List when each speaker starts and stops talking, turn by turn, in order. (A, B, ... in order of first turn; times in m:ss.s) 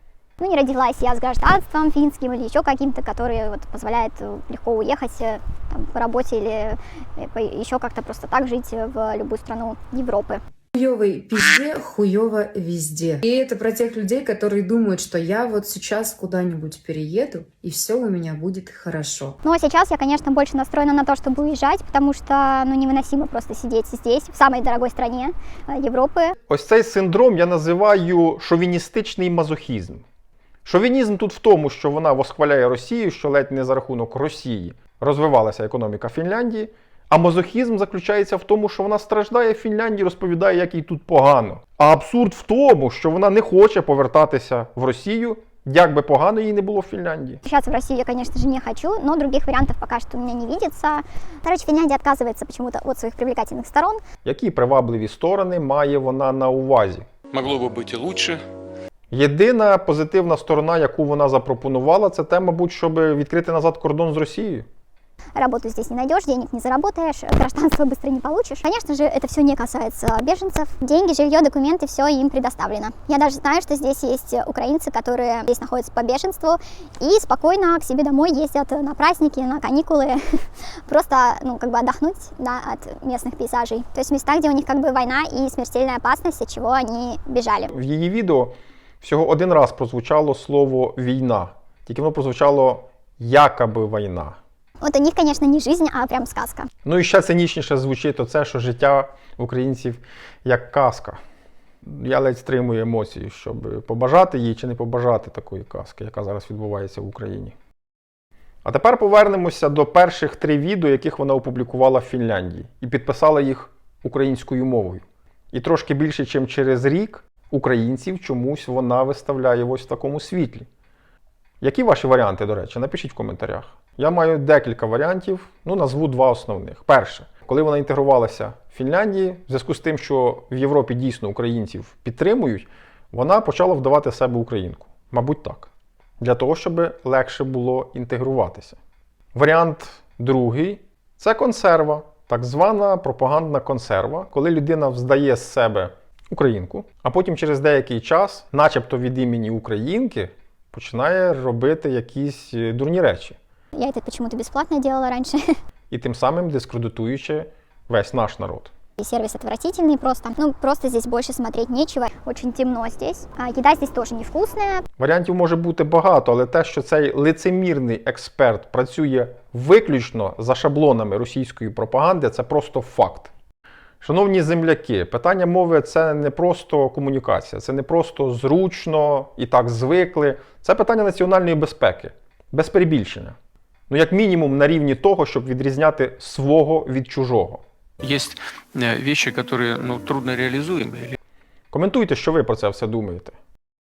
0:00.4-0:10.4 A
0:10.8-0:19.3 B
0:19.4-0:26.4 A
0:26.5-0:30.0 C
0:30.6-0:47.4 C
0:47.4-0:54.0 A
0:54.2-0:57.0 C
0:57.3-0:58.4 D
0:59.1-1:04.7 C
1:05.4-1:27.7 A
1:27.7-1:34.4 C
1:34.8-1:36.7 A
1:36.8-1:41.2 C
1:41.8-1:47.5 C
1:48.6-2:00.7 C
2:01.6-2:18.8 C
2:19.4-2:33.4 C
2:33.8-2:35.4 A
2:35.9-2:38.7 C
2:39.0-2:44.8 A
2:45.0-2:53.3 C
2:54.0-3:03.4 C
3:03.9-3:07.6 C
3:08.0-3:11.2 D
3:11.7-3:13.4 C